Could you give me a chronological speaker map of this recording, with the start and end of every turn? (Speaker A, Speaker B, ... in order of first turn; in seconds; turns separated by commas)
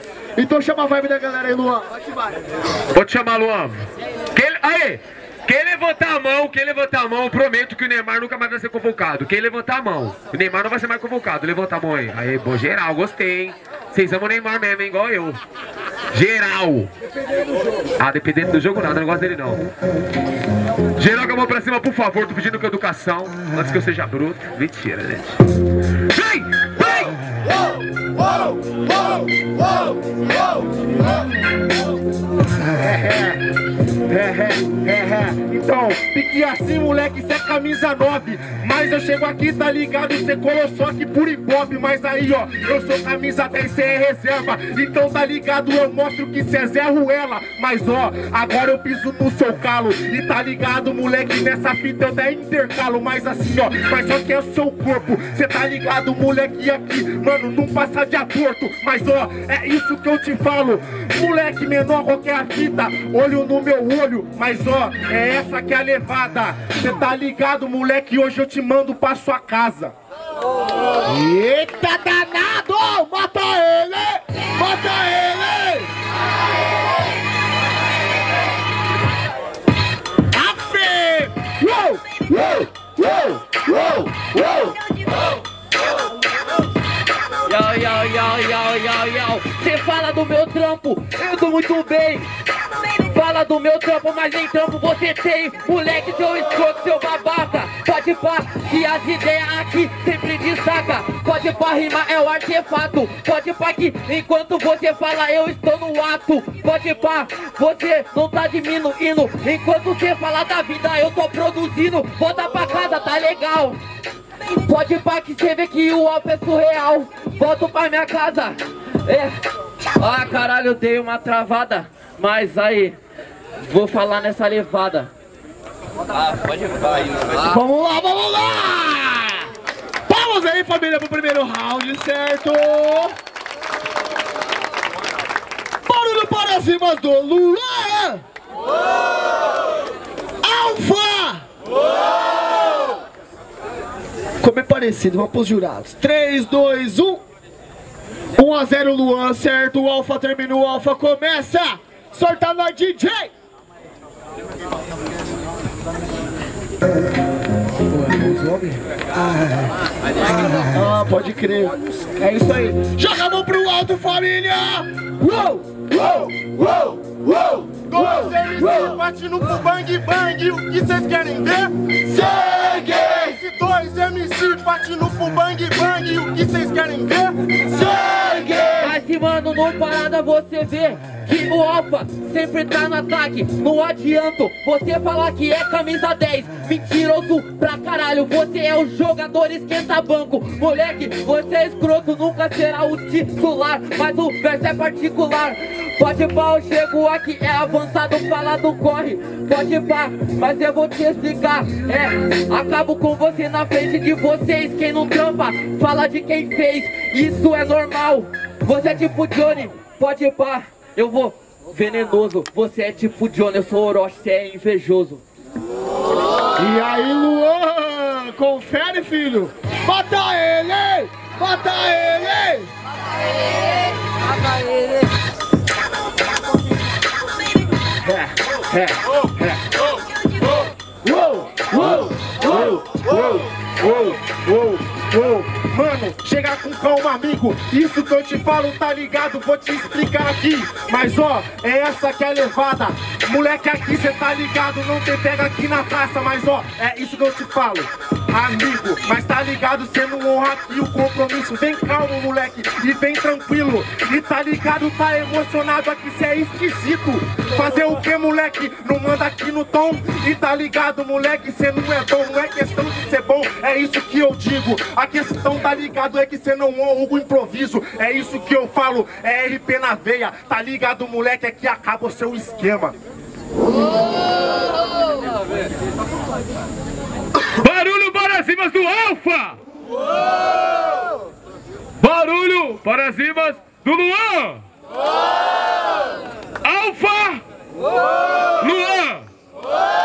Speaker A: 0.4-2.4, Speaker B: 2.9-15.4, Speaker B: 16.1-16.9, Speaker B: 18.0-19.6, Speaker B: 21.0-25.4, Speaker B: 26.1-27.1, Speaker C: 32.8-33.5, Speaker C: 34.1-69.9, Speaker A: 71.0-75.9, Speaker A: 80.3-84.3, Speaker D: 87.5-92.3, Speaker D: 93.1-113.8, Speaker D: 114.5-119.4, Speaker D: 120.0-123.0, Speaker D: 123.6-125.1, Speaker A: 127.4-129.5, Speaker A: 130.1-133.2, Speaker A: 135.8-138.2, Speaker A: 140.4-141.4, Speaker A: 144.4-147.2, Speaker A: 148.4-153.3, Speaker A: 158.1-158.8, Speaker A: 160.5-167.8, Speaker C: 167.8-178.2, Speaker A: 178.2-178.5, Speaker D: 178.7-215.2, Speaker A: 216.6-222.7, Speaker C: 228.0-229.6, Speaker C: 231.3-273.0, Speaker B: 277.5-279.6, Speaker B: 282.0-284.6, Speaker B: 286.6-287.4, Speaker B: 288.6-289.3